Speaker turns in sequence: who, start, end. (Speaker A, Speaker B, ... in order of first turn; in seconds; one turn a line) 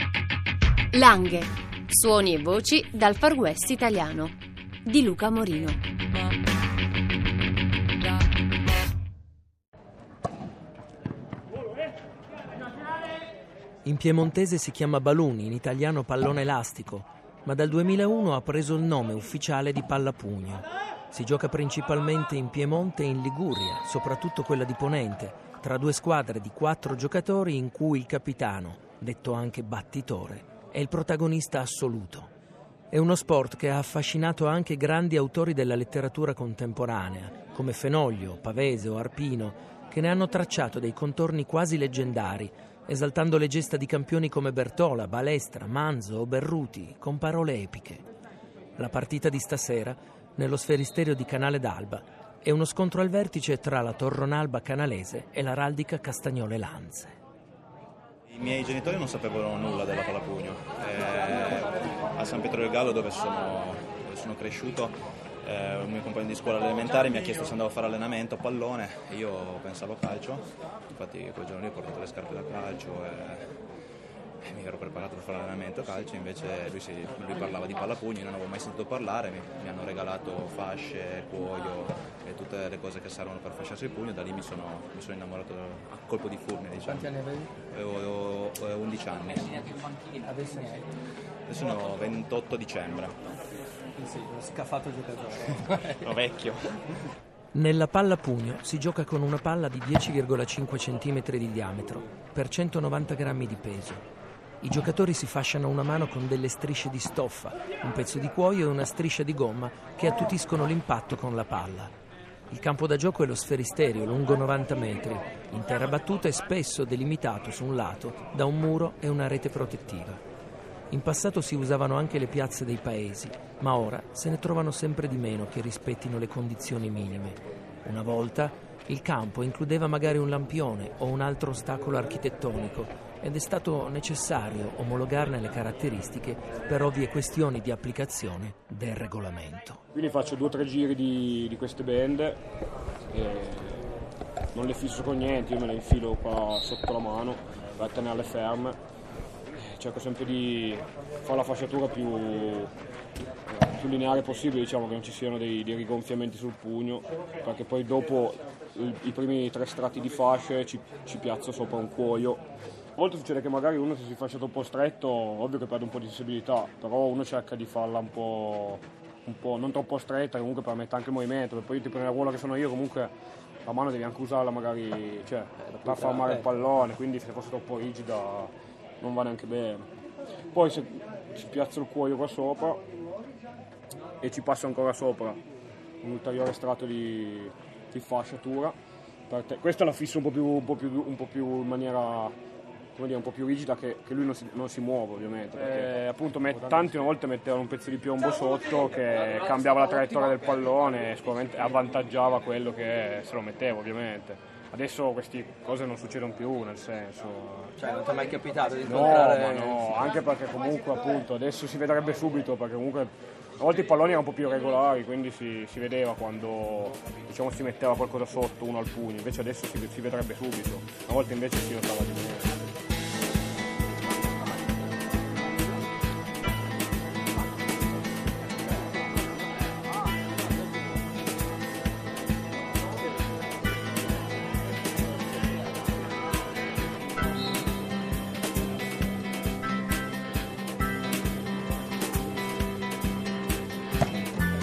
Speaker A: 0.9-4.3
Speaker A: 4.9-5.8
Speaker B: 13.8-32.3
Speaker B: 32.9-48.1
Speaker B: 48.8-57.2
Speaker C: 58.3-73.5
Speaker C: 74.4-87.1
Speaker D: 86.8-87.5
Speaker C: 87.7-89.6
Speaker D: 90.0-90.9
Speaker C: 91.5-93.2
Speaker D: 94.0-96.2
Speaker C: 96.0-96.7
Speaker B: 97.5-104.0
Speaker B: 104.6-111.9
Speaker B: 112.5-120.2
Speaker B: 120.9-139.8
Speaker E: 139.9-142.4
Speaker E: 143.1-143.9
Speaker E: 144.6-148.8
Speaker E: 149.6-152.7
Speaker E: 153.5-162.4
Speaker E: 163.0-173.1
Speaker E: 173.7-179.9
Speaker D: 175.8-176.4
Speaker E: 180.5-182.8
Speaker E: 184.2-185.4
Speaker E: 186.0-188.8
Speaker E: 189.3-192.3
Speaker E: 192.9-207.7
Speaker D: 207.8-210.1
Speaker E: 208.8-222.5